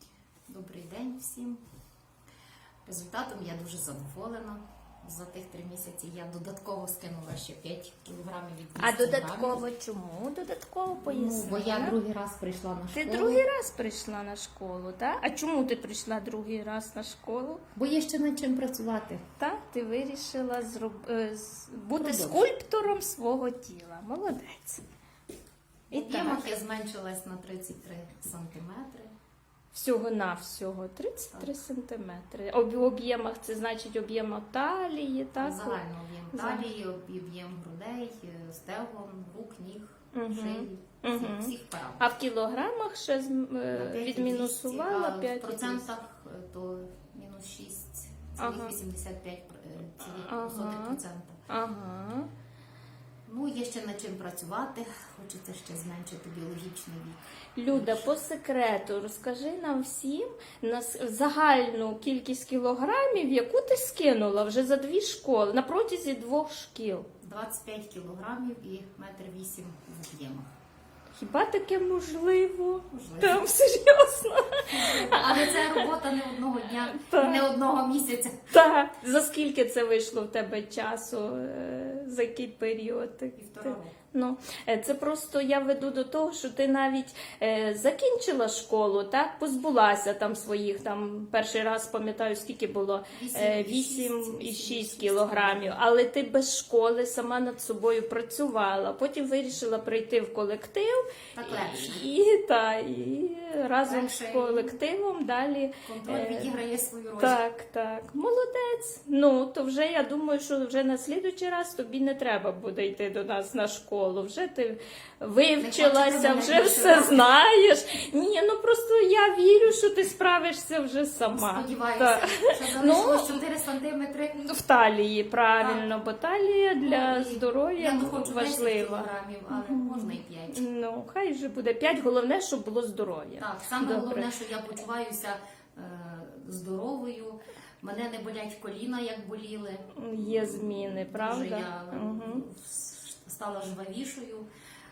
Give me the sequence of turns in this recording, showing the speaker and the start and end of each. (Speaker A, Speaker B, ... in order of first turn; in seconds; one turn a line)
Speaker A: 0.5-1.6
Speaker A: 2.9-9.6
Speaker B: 8.8-12.0
Speaker A: 11.0-13.4
Speaker B: 12.9-17.6
Speaker A: 17.7-19.2
Speaker B: 19.4-24.8
Speaker A: 22.0-22.4
Speaker B: 25.9-26.5
Speaker A: 25.9-29.1
Speaker B: 29.7-35.8
Speaker A: 35.4-42.1
Speaker B: 36.3-36.7
Speaker B: 40.1-45.9
Speaker A: 43.7-51.4
Speaker B: 48.4-48.8
Speaker B: 50.2-52.3
Speaker A: 53.2-58.1
Speaker B: 57.5-67.1
Speaker A: 67.2-70.5
Speaker B: 71.1-75.9
Speaker A: 72.9-73.5
Speaker A: 74.7-78.5
Speaker B: 76.9-77.4
Speaker B: 78.5-106.5
Speaker A: 83.3-84.0
Speaker A: 93.1-95.8
Speaker A: 101.3-102.1
Speaker A: 103.8-104.8
Speaker A: 105.8-107.4
Speaker B: 107.2-123.4
Speaker A: 115.6-117.2
Speaker A: 121.3-124.4
Speaker B: 124.4-134.3
Speaker A: 125.6-125.9
Speaker A: 126.8-130.6
Speaker A: 133.4-144.4
Speaker B: 139.9-142.4